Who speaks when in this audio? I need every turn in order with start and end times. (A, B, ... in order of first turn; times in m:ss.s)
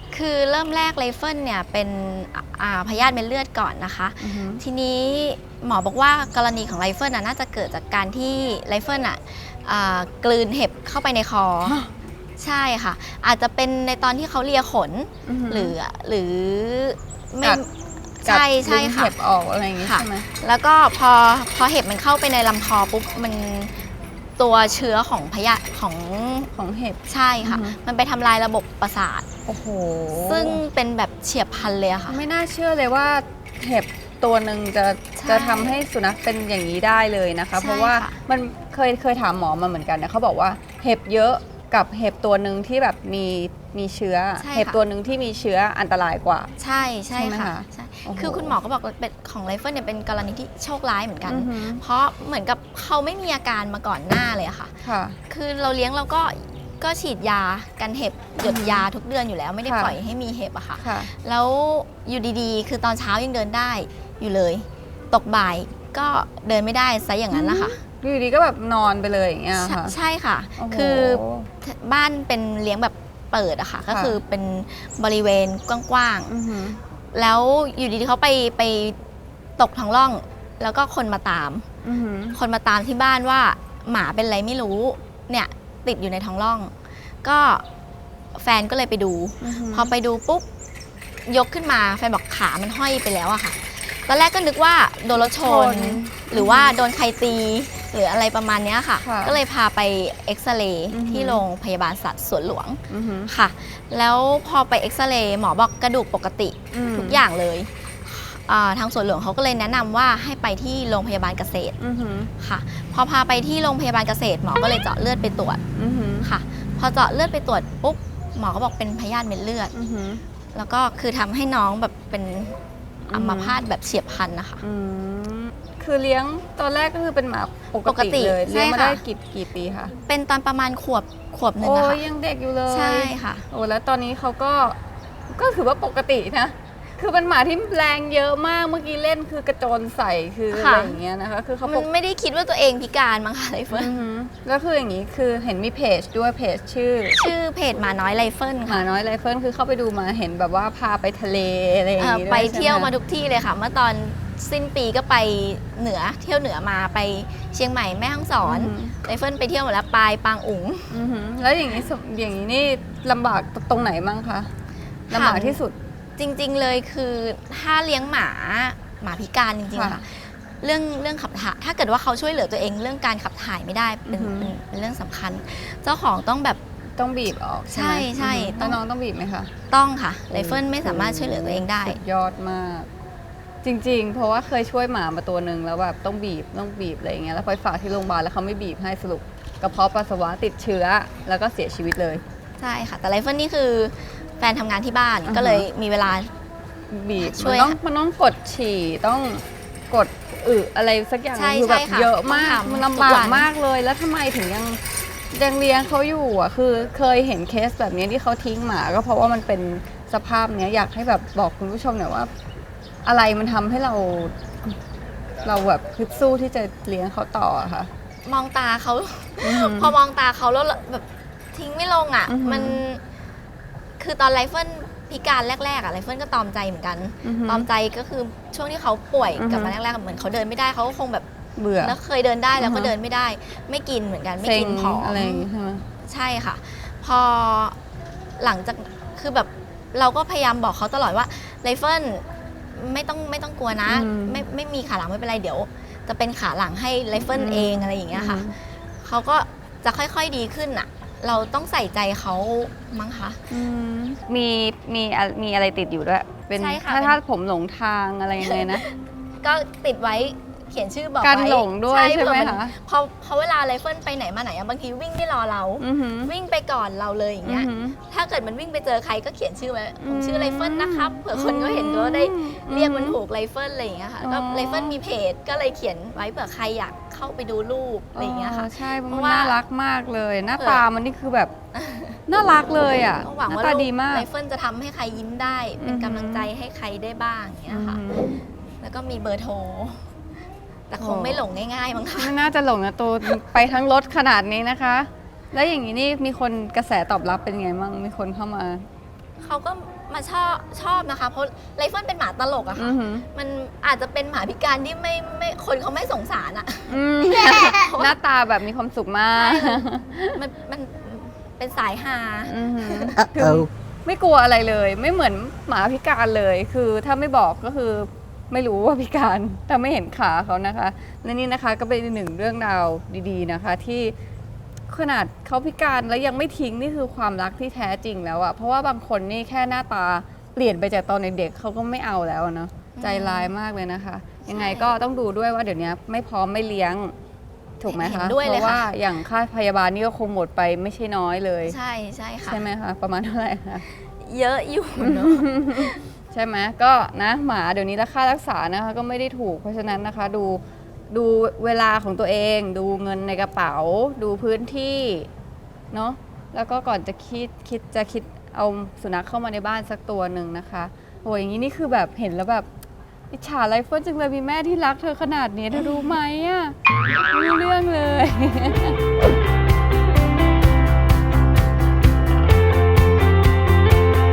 0:00.1-0:11.8 A
0:04.2-0:04.6 B
0:11.6-0:11.9 B
0:12.4-0:17.7 A
0:15.2-0:15.8 B
0:18.2-0:19.1 A
0:18.2-0:20.2 B
0:19.8-0:23.8 A
0:24.4-0:26.5 A
0:26.5-0:27.8 B
0:27.1-0:29.3 A
0:29.4-0:30.6 B
0:30.2-0:32.2 A
0:32.1-0:46.5 B
0:35.2-0:35.8 A
0:37.6-0:38.2 A
0:44.4-0:44.8 A
0:46.6-0:54.7 A
0:47.1-0:48.6 B
0:51.2-0:51.8 B
0:54.8-0:55.2 B
0:55.3-1:07.8 A
0:58.4-0:58.8 B
0:59.6-1:00.0 B
1:00.8-1:01.1 B
1:07.3-1:10.0 B
1:09.6-1:16.3 A
1:10.6-1:11.5 B
1:13.9-1:14.2 B
1:16.3-1:16.8 B
1:17.1-1:19.0 A
1:19.6-1:21.6 A
1:21.8-1:22.4 B
1:22.3-1:26.7 A
1:27.2-1:27.6 A
1:28.3-1:30.4 A
1:29.4-1:29.9 B
1:31.3-1:51.8 A
1:35.1-1:36.8 B
1:39.0-1:39.4 B
1:40.9-1:41.4 B
1:42.9-1:43.3 B
1:46.7-1:47.2 B
1:51.8-1:52.3 B
1:52.4-1:55.6 A
1:55.8-1:56.3 B
1:56.2-1:59.7 A
1:59.7-2:00.2 B
2:00.5-2:02.6 A
2:03.1-2:03.6 B
2:03.1-2:04.6 A
2:04.6-2:09.9 B
2:07.8-2:09.0 A
2:10.0-2:12.0 A
2:11.6-2:14.8 B
2:12.7-2:13.4 A
2:15.3-2:21.9 B
2:20.5-2:21.0 A
2:21.6-2:24.0 A
2:23.7-2:27.3 B
2:27.1-2:28.9 A
2:28.7-2:32.9 B
2:32.0-2:41.0 A
2:38.4-2:38.9 B
2:40.9-2:44.5 B
2:45.1-2:45.6 A
2:45.1-2:45.7 B
2:46.2-2:56.6 A
2:49.7-2:50.0 B
2:54.1-2:54.5 B
2:57.0-2:59.5 B
2:57.7-2:58.8 A
2:59.7-3:02.0 A
3:00.3-3:02.9 B
3:03.6-3:12.2 B
3:12.6-3:16.3 A
3:15.2-3:15.7 B
3:16.9-3:24.8 B
3:17.2-3:17.8 A
3:21.3-3:23.5 A
3:25.3-3:32.3 B
3:33.0-3:34.7 B
3:35.4-3:37.9 B
3:38.2-3:43.0 A
3:39.4-3:40.0 B
3:42.3-3:42.8 B
3:44.0-3:51.3 A
3:47.2-3:47.7 B
3:49.4-3:49.7 B
3:51.6-3:52.0 B
3:51.8-3:55.5 A
3:52.6-3:52.9 B
3:54.4-3:55.8 B
3:56.0-3:57.8 A
3:58.4-4:13.4 A
4:03.9-4:04.4 B
4:07.3-4:08.5 B
4:13.5-4:18.8 B
4:16.5-4:17.2 A
4:18.4-4:39.6 A
4:21.2-4:22.8 B
4:25.8-4:26.3 B
4:27.4-4:28.0 B
4:30.0-4:33.2 B
4:34.2-4:35.0 B
4:38.1-4:41.5 B
4:40.6-4:40.8 A
4:41.7-4:42.2 A
4:42.3-4:44.3 B
4:43.2-4:48.2 A
4:45.8-4:46.5 B
4:47.7-4:48.4 B
4:48.8-4:50.1 A
4:50.9-4:52.3 A
4:51.0-4:51.4 B
4:52.2-4:58.8 B
4:59.4-5:08.1 A
5:02.8-5:03.3 B
5:06.9-5:10.4 B
5:09.4-5:09.8 A
5:10.3-5:13.1 A
5:12.4-5:24.1 B
5:24.9-5:37.1 B
5:32.9-5:33.5 A
5:34.4-5:34.9 A
5:37.8-5:41.8 B
5:37.8-5:38.9 A
5:41.6-5:42.6 A
5:42.4-5:43.8 B
5:44.2-5:46.0 A
5:45.0-5:55.3 B
5:55.9-6:02.7 B
6:03.3-6:09.0 B
6:05.7-6:06.2 A